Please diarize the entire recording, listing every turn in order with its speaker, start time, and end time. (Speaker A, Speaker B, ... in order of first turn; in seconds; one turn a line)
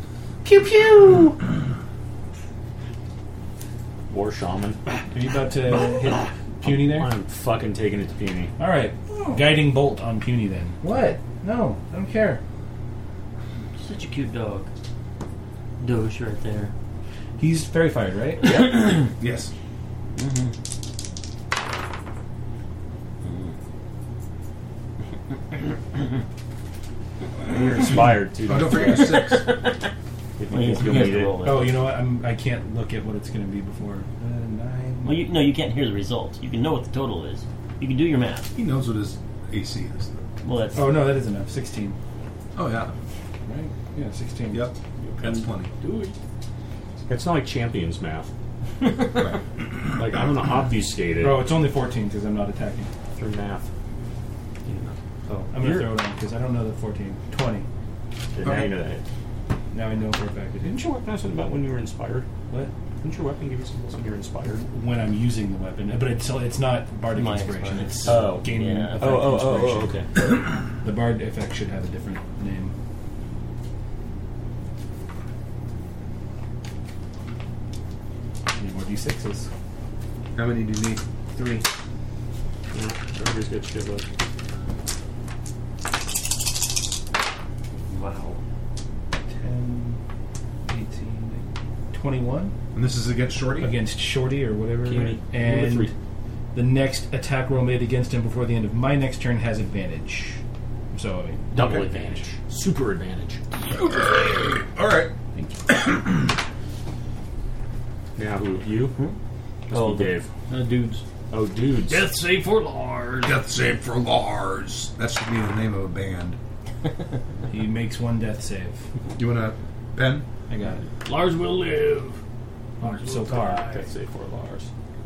Speaker A: 0.4-1.4
Speaker B: 4.1-4.8
Speaker A: 5.1-7.1
Speaker B: 6.6-8.5
Speaker A: 8.6-12.4
Speaker C: 13.8-14.7
Speaker C: 15.8-16.7
Speaker A: 17.4-18.7
Speaker C: 18.5-19.1
Speaker D: 19.2-19.5
Speaker C: 20.1-20.5
Speaker C: 23.2-23.5
Speaker B: 27.5-29.3
Speaker D: 28.4-29.4
Speaker C: 28.7-29.9
Speaker B: 30.4-31.4
Speaker C: 30.5-31.8
Speaker A: 31.3-35.2
Speaker C: 35.0-38.5
Speaker D: 38.5-40.2
Speaker C: 40.4-41.0
Speaker A: 40.7-42.0
Speaker D: 42.5-42.9
Speaker A: 43.5-44.7
Speaker D: 44.5-45.7
Speaker E: 45.0-46.2
Speaker B: 47.1-48.3
Speaker D: 49.1-49.4
Speaker B: 49.9-51.5
Speaker A: 51.2-52.9
Speaker B: 53.1-53.7
Speaker B: 54.6-54.9
Speaker A: 55.3-57.7
Speaker B: 55.5-56.0
Speaker B: 58.3-59.0
Speaker D: 58.4-58.7
Speaker A: 59.7-60.9
Speaker B: 60.6-62.3
Speaker B: 63.0-64.7
Speaker A: 64.4-72.7
Speaker C: 67.1-69.2
Speaker B: 68.0-70.1
Speaker A: 78.5-79.5
Speaker D: 80.3-81.0
Speaker A: 81.3-81.6
Speaker B: 82.7-84.0
Speaker C: 87.9-88.4
Speaker A: 89.3-90.0
Speaker A: 90.7-92.5
Speaker D: 92.7-93.7
Speaker A: 93.6-95.9
Speaker B: 94.8-95.9
Speaker A: 96.5-100.4
Speaker A: 100.9-102.2
Speaker B: 101.5-103.4
Speaker D: 103.7-105.1
Speaker A: 105.3-105.6
Speaker D: 105.7-106.2
Speaker B: 108.2-108.9
Speaker B: 109.7-110.3
Speaker C: 109.7-110.1
Speaker E: 110.5-111.0
Speaker B: 111.3-112.1
Speaker E: 111.8-113.4
Speaker D: 113.2-116.4
Speaker A: 117.5-118.9
Speaker D: 119.2-120.2
Speaker A: 120.5-120.8
Speaker E: 121.0-122.2
Speaker E: 122.8-123.9
Speaker A: 122.8-123.7
Speaker B: 123.6-124.7